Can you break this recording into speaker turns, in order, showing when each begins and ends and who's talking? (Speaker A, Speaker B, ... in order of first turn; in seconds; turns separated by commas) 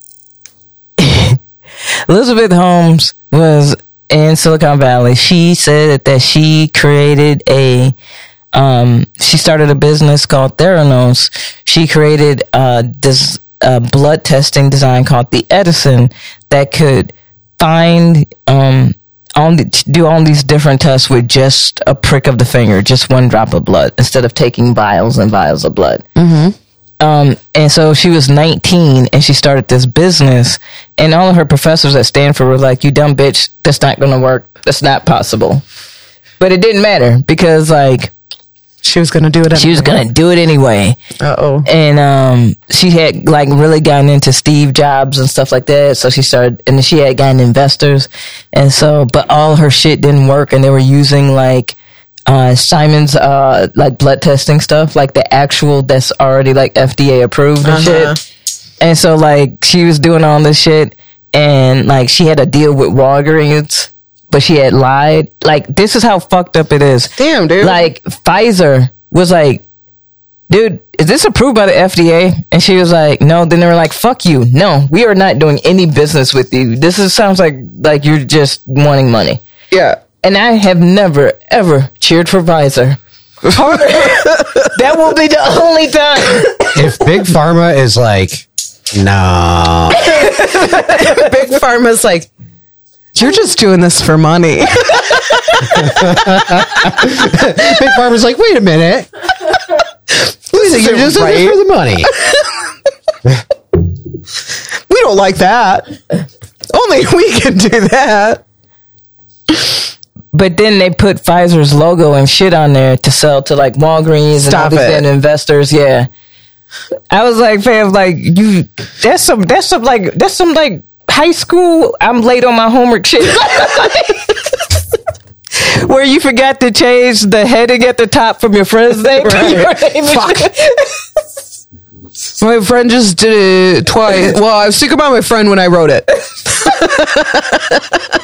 Speaker A: 1.0-1.4, Speaker A: 2.1-7.9, Speaker A: 8.5-26.0, Speaker B: 26.1-26.6, Speaker A: 27.0-35.6, Speaker A: 36.4-38.1, Speaker B: 38.8-40.0, Speaker A: 39.5-41.0, Speaker B: 41.2-41.7, Speaker A: 41.6-58.1, Speaker B: 57.6-58.2, Speaker A: 58.8-69.6, Speaker B: 67.2-67.8, Speaker A: 70.5-79.4, Speaker B: 79.7-80.0, Speaker A: 80.2-86.5, Speaker B: 83.5-84.7, Speaker C: 86.7-90.1, Speaker A: 90.1-91.2, Speaker B: 90.3-92.3, Speaker B: 93.1-97.6, Speaker C: 95.7-99.1, Speaker C: 100.5-102.1, Speaker B: 100.5-102.4, Speaker B: 104.9-105.9, Speaker B: 106.7-108.4, Speaker A: 110.3-116.1, Speaker B: 114.3-115.0, Speaker A: 117.1-124.3, Speaker A: 125.5-130.9, Speaker B: 129.1-130.5, Speaker B: 132.4-137.9